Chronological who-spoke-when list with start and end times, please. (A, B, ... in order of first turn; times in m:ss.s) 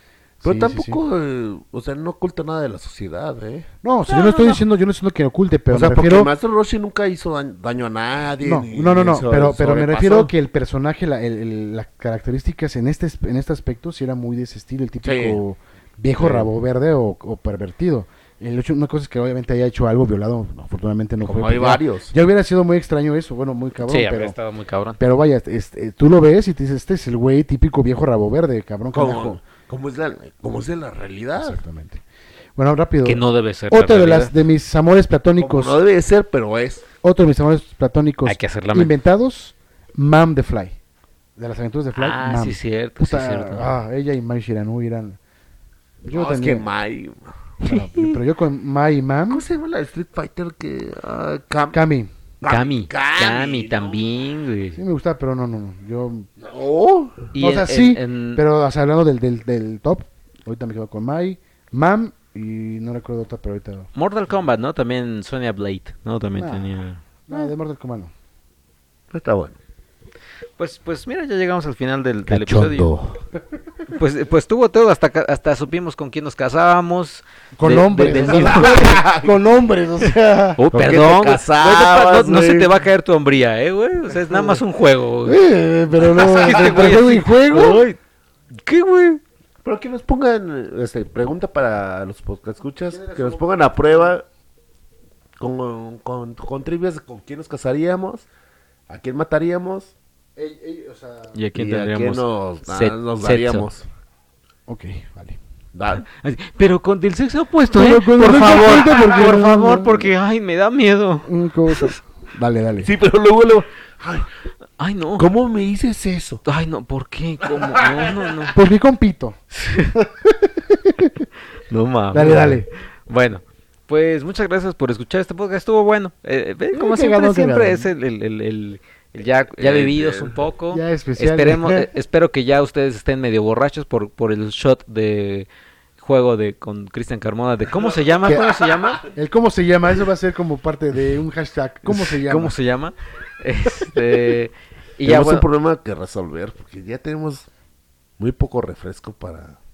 0:00.4-0:01.0 A
0:00.4-0:03.7 B
0:03.8-0:06.3 A
0:04.1-0:04.6 C
0:05.7-0:10.3 B
0:08.4-0:24.4 A
0:15.0-0:15.4 B
0:16.2-0:16.5 B
0:21.2-0:22.1 B
0:23.8-0:25.0 C
0:25.0-0:29.4 A
0:28.9-0:31.6 B
0:31.4-0:32.0 A
0:32.6-0:35.8 A
0:33.0-0:34.3 C
0:35.4-0:36.8 B
0:37.0-0:40.8 A
0:38.2-0:38.9 C
0:41.4-0:45.2 A
0:41.9-0:43.8 C
0:46.0-0:46.7 A
0:46.1-0:47.5 B
0:47.6-0:49.4 A
0:47.6-0:48.1 C
0:49.3-0:51.8 B
0:51.7-0:52.1 A
0:52.4-0:54.0 B
0:52.4-0:54.8 C
0:54.7-0:56.3 A
0:56.4-0:57.3 B
0:57.3-0:58.4 C
0:57.4-1:03.9 A
1:03.9-1:07.4 C
1:06.4-1:08.1 A
1:09.1-1:09.6 B
1:10.6-1:12.9 C
1:12.3-1:13.2 B
1:13.9-1:19.0 C
1:17.6-1:20.6 A
1:18.0-1:19.3 B
1:20.6-1:25.4 C
1:20.7-1:22.7 B
1:24.3-1:24.6 A
1:25.2-1:27.8 A
1:26.0-1:28.0 C
1:26.2-1:27.2 B
1:28.6-1:29.2 C
1:29.6-1:34.2 B
1:32.9-1:34.1 A
1:35.4-1:38.3 B
1:38.9-1:39.9 B
1:40.4-1:41.4 A
1:41.3-1:43.7 C
1:41.5-1:43.9 B
1:44.7-1:45.4 A
1:45.7-1:46.0 B
1:46.0-1:51.9 C
1:47.7-1:50.1 A
1:51.2-1:52.9 A
1:52.8-1:54.3 B
1:54.8-1:55.3 C
1:55.2-1:56.4 B
1:56.4-1:58.6 C
1:57.8-1:58.2 B
1:58.5-1:59.4 A
1:59.5-1:59.9 C
1:59.9-2:01.2 A
2:01.7-2:19.1 C
2:02.1-2:02.7 A
2:06.7-2:07.9 A
2:09.6-2:10.4 B
2:10.7-2:11.9 A
2:18.2-2:22.6 A
2:21.8-2:25.4 C
2:25.0-2:27.5 B
2:28.2-2:29.6 B